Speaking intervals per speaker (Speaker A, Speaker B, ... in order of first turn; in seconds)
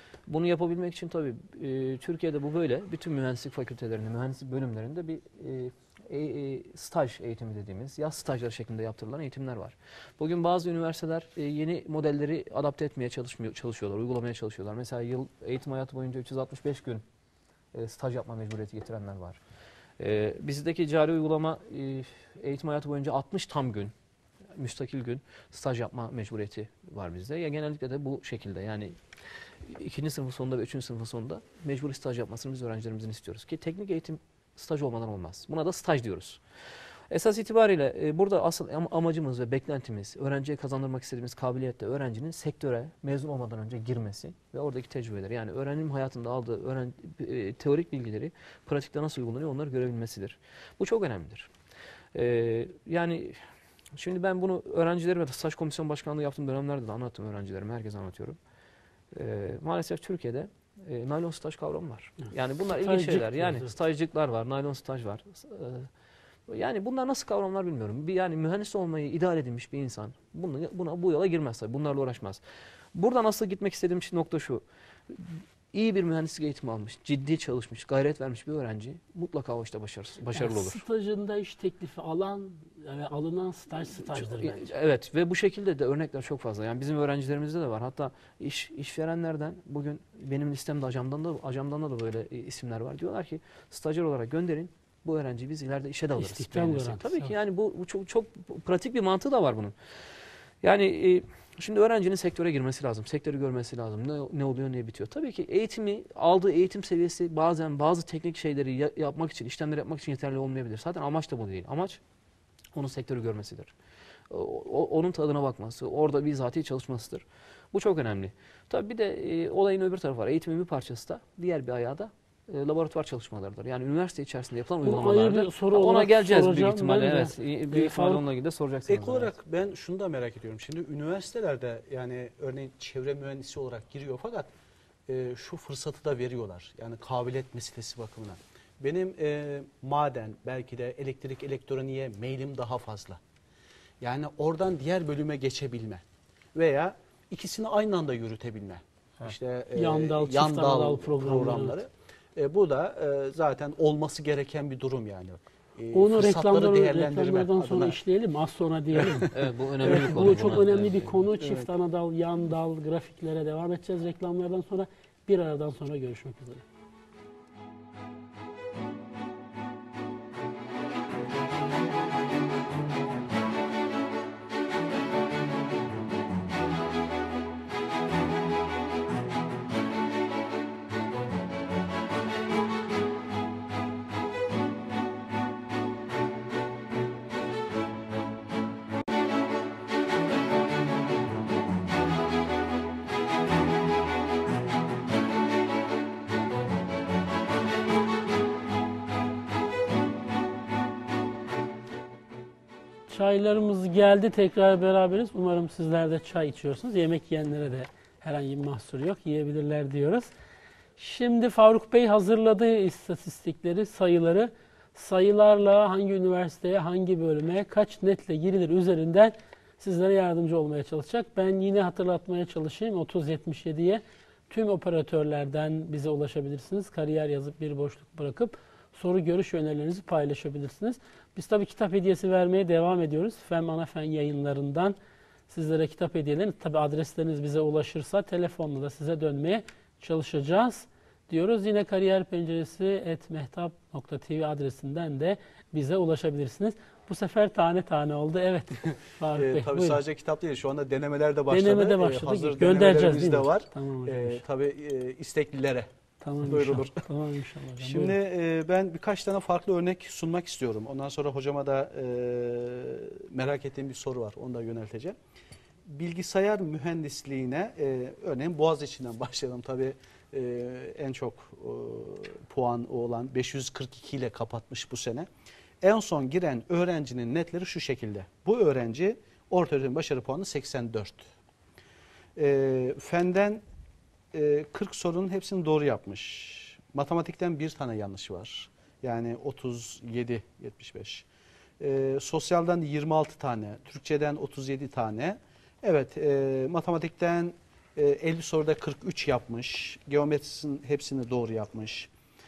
Speaker A: 0.3-17.0, 17.7-19.4, 20.0-23.9, 24.6-29.0, 29.6-36.4, 37.1-51.5, 52.1-53.4, 53.9-58.4, 59.1-65.9, 66.5-72.4, 72.9-80.8, 84.0-99.7, 100.6-112.0, 112.7-113.7, 114.3-129.3, 159.3-161.2
Speaker B: 62.7-63.7, 80.3-84.7, 96.2-97.3, 124.8-128.2, 149.8-151.8, 155.9-166.6, 203.1-210.3, 211.0-235.0, 235.5-250.0, 251.5-254.4, 256.2-258.1
Speaker C: 128.9-134.5, 135.1-143.2, 144.0-146.0, 146.5-158.0, 160.2-160.5, 249.3-255.9, 256.4-257.0, 257.8-265.1, 265.9-275.3, 275.8-281.2, 282.4-283.6, 284.3-291.2, 291.8-302.1